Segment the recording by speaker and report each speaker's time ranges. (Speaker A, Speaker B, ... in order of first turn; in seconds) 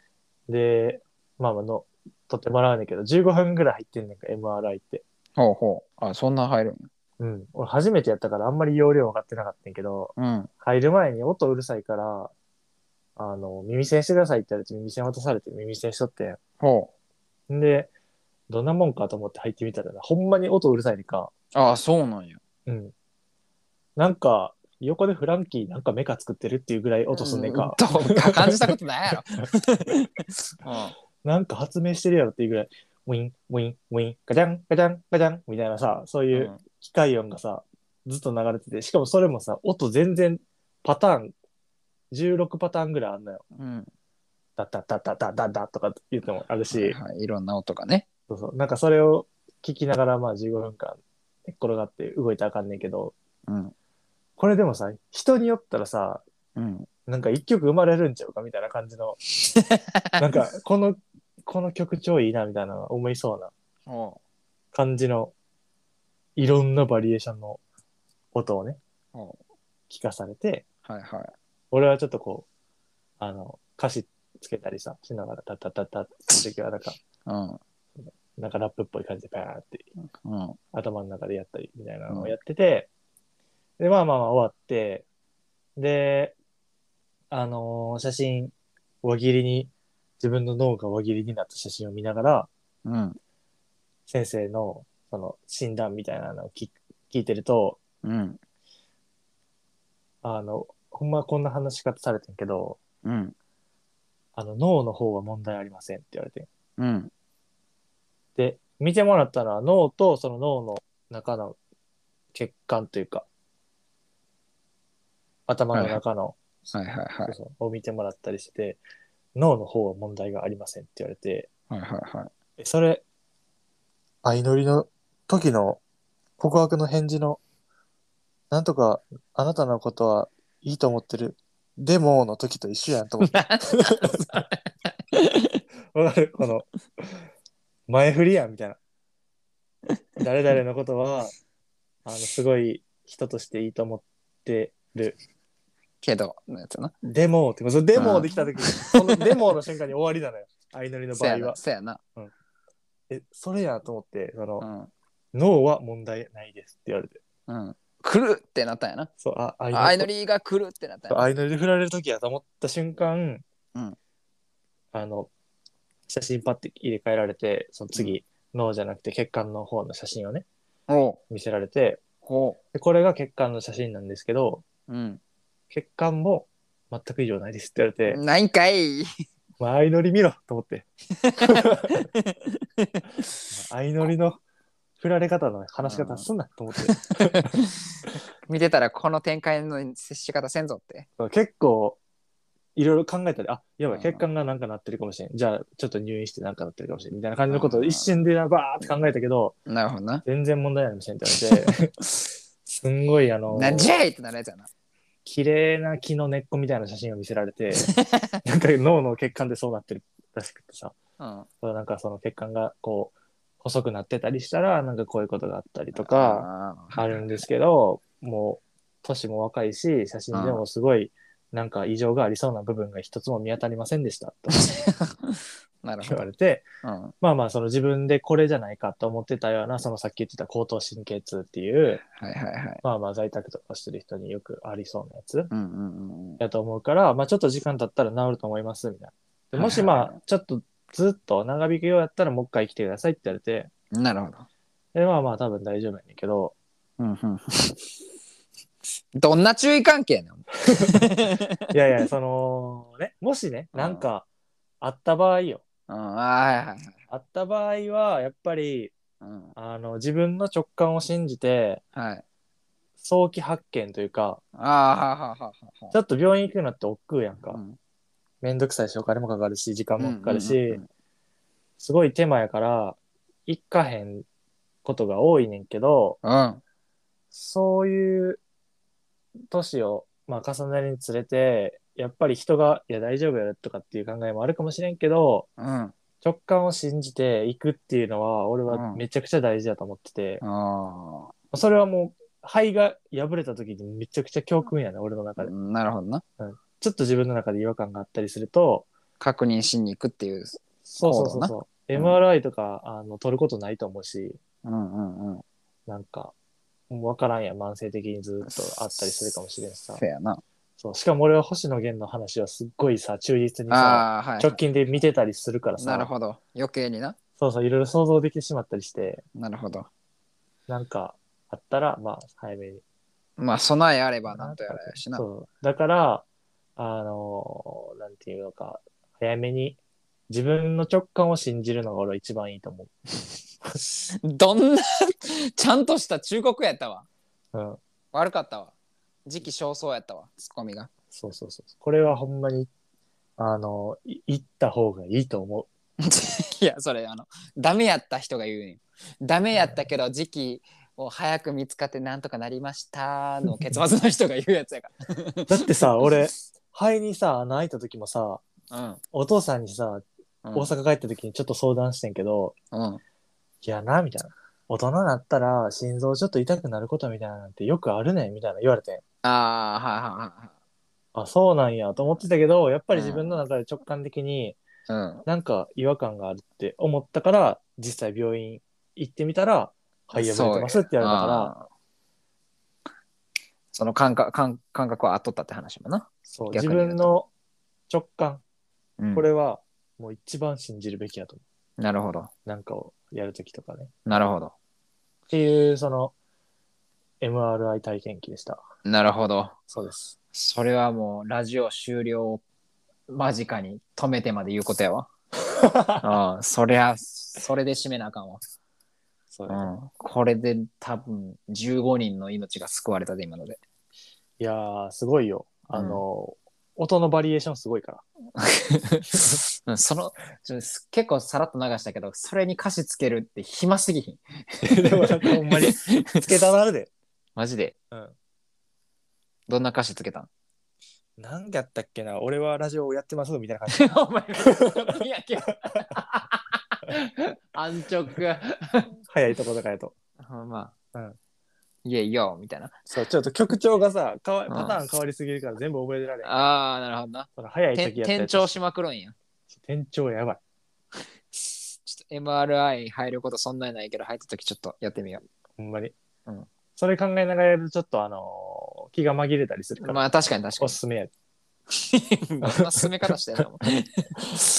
Speaker A: 0.5-5.0, 7.2-12.3, 13.2-16.4, 17.5-17.9, 18.5-21.3, 22.7-22.9, 24.0-28.8, 31.2-41.3, 42.1-43.4, 44.6-47.0, 48.3-53.1, 54.4-56.2, 57.1-59.2, 60.2-63.5, 64.7-65.3, 66.4-67.6, 68.3-68.8, 69.9-70.7, 71.7-72.5, 73.2-77.0, 78.0-79.9, 80.7-82.9, 83.8-85.0, 85.8-86.3, 87.3-92.5, 94.1-97.8, 100.2-102.8, 104.4-106.5, 108.4-111.6, 112.3-113.3, 115.5-116.4, 117.2-118.8, 119.3-121.5, 122.6-123.0, 124.2-125.8, 126.4-127.4, 128.5-134.4, 135.9-137.2, 137.9-138.8, 140.2-141.3, 142.1-145.2, 147.0-151.6, 153.1-154.7, 155.3-157.2, 159.2-160.1, 161.1-163.4, 164.9-165.3, 166.1-170.4, 171.3-172.0, 172.7-174.6, 175.7-178.2, 179.6-182.0, 183.5-184.4, 185.0-187.6, 191.2-192.0, 192.8-199.6, 200.2-202.0, 202.7-203.9, 205.2-211.0, 211.6-224.7, 226.0-226.7, 227.2-232.0, 232.8-235.5, 236.4-243.7, 244.9-246.5, 250.8-251.1, 251.7-254.3, 254.8-255.6, 257.1-258.9, 259.6-261.8, 263.0-264.4, 265.9-267.6, 268.4-270.8, 271.8-274.2, 274.8-276.2, 277.3-278.4, 279.5-285.5, 286.2-290.4, 291.5-295.5, 296.4-298.9, 300.9-304.4, 305.9-306.3, 306.9-310.0, 310.8-316.1, 317.4-319.2, 320.7-322.8, 324.3-326.2, 326.8-329.8, 330.3-332.9, 337.5-337.8, 341.1-342.7, 343.4-345.7, 349.5-349.8, 355.5-358.4, 359.1-362.6, 363.6-369.0, 371.1-374.6, 375.3-381.5, 386.3-387.3, 387.9-388.4, 389.1-391.4, 392.4-393.9, 395.3-396.1, 397.2-398.6, 399.7-400.1, 405.6-406.1, 409.3-409.7, 414.4-418.0, 419.1-419.4, 424.6-426.9, 431.2-434.9, 439.0-439.9, 442.9-446.5, 447.4-448.5, 449.5-450.4, 455.6-455.9, 456.8-460.1, 460.6-461.1, 462.4-463.4
Speaker B: 5.4-6.9, 10.2-10.5, 16.6-16.9, 21.5-22.4, 27.1-30.0, 30.6-30.9, 36.3-36.6, 43.5-43.9, 46.7-48.1, 53.5-53.7, 56.6-56.9, 59.6-60.0, 63.9-64.2, 69.1-69.4, 70.8-71.3, 77.3-77.6, 80.2-80.6, 82.1-82.3, 92.8-93.2, 98.0-98.4, 103.0-103.3, 106.8-107.1, 115.7-116.0, 116.7-117.4, 121.7-122.3, 133.2-135.6, 146.0-146.9, 148.0-149.3, 151.1-152.0, 154.6-154.9, 157.5-159.1, 159.7-161.3, 170.9-171.2, 172.2-172.6, 174.9-175.2, 178.1-179.1, 181.2-182.2, 182.8-183.3, 185.8-186.3, 186.8-187.7, 188.4-191.1, 193.9-194.2, 197.5-198.1, 199.7-200.2, 203.5-204.7, 208.0-208.3, 211.2-211.5, 216.0-217.2, 220.3-220.6, 224.5-226.3, 226.8-227.1, 232.0-232.8, 235.5-236.4, 239.6-240.2, 243.9-244.5, 247.0-247.8, 249.2-251.7, 253.7-254.0, 255.9-257.0, 259.2-259.5, 261.9-262.2, 264.6-266.0, 267.5-267.8, 270.0-270.9, 276.2-276.6, 285.6-285.9, 288.7-289.0, 290.4-291.3, 295.4-296.2, 299.2-302.2, 304.6-305.4, 310.0-310.4, 313.7-314.6, 315.8-317.2, 319.4-319.9, 323.4-325.2, 334.2-337.1, 338.1-338.7, 339.3-340.9, 346.0-355.6, 358.7-359.0, 360.4-360.7, 362.7-363.0, 369.2-370.5, 372.9-373.4, 374.9-375.3, 380.1-381.7, 383.7-387.1, 389.0-389.3, 391.8-392.3, 394.1-394.5, 398.9-399.6, 400.3-402.4, 403.1-405.1, 406.0-408.4, 409.5-413.6, 415.7-416.0, 418.4-426.0, 427.4-427.8, 429.5-430.3, 433.7-438.9, 440.2-440.8, 441.8-442.8, 444.5-444.8, 446.2-449.1, 451.3-455.2, 459.8-460.8, 461.7-464.4